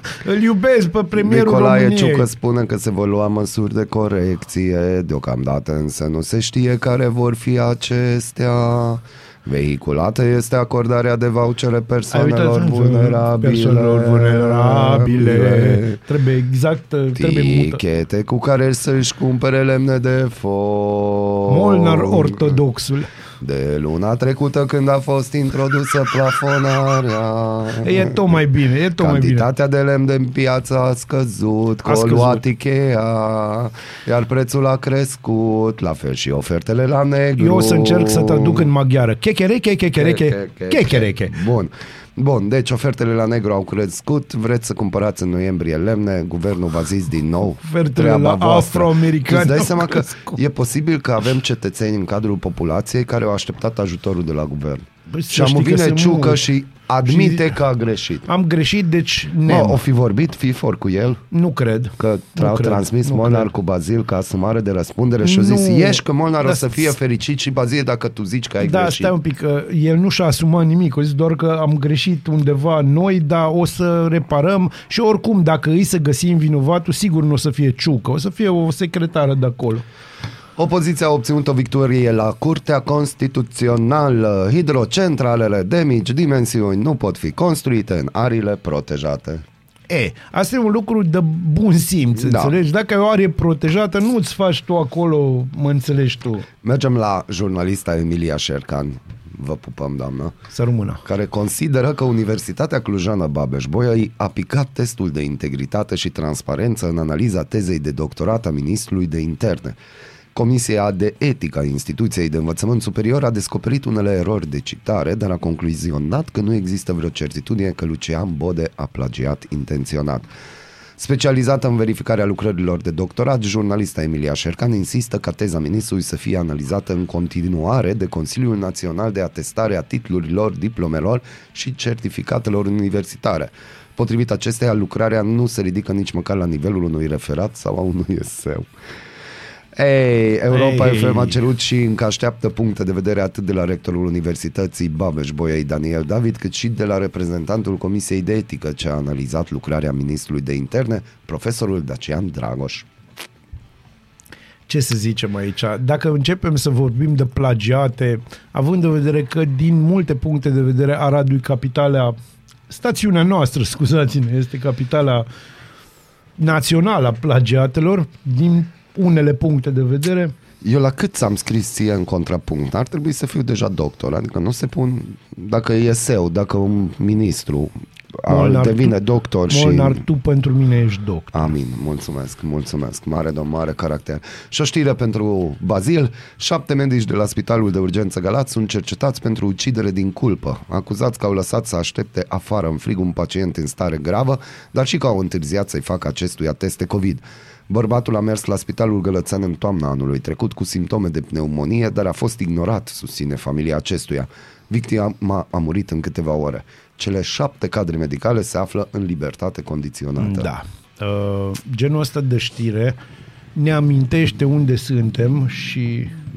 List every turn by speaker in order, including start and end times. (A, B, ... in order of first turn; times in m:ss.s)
0:00.2-0:02.3 A
0:01.1-0:16.0 B
0:12.1-0:17.8 A
0:17.1-0:22.6 B
0:21.5-0:23.1 A
0:23.4-0:28.4 B
0:27.8-0:29.5 A
0:29.0-0:38.7 B
0:31.8-0:32.4 A
0:37.4-0:41.4 A
0:39.9-0:58.3 B
0:47.6-0:50.4 A
0:55.1-0:56.4 A
0:57.0-0:57.6 A
0:58.3-0:59.8 A
0:59.4-1:01.2 B
1:01.3-1:03.5 A
1:02.0-1:09.1 B
1:05.2-1:06.9 A
1:08.6-1:19.8 A
1:20.6-1:29.4 B
1:29.9-1:36.5 A
1:32.2-1:32.6 B
1:36.6-1:40.4 B
1:40.5-1:41.0 A
1:41.0-1:49.8 B
1:50.3-2:00.3 B
2:01.0-2:18.7 B
2:19.7-2:32.9 B
2:20.5-2:21.4 A
2:34.7-2:42.2 A
2:42.7-2:45.3 A
2:46.4-2:50.3 A
2:50.6-3:00.0 B
2:58.3-2:59.0 A
2:59.5-3:01.4 A
3:01.3-3:30.5 B
3:30.2-3:33.0 A
3:33.6-3:36.1 A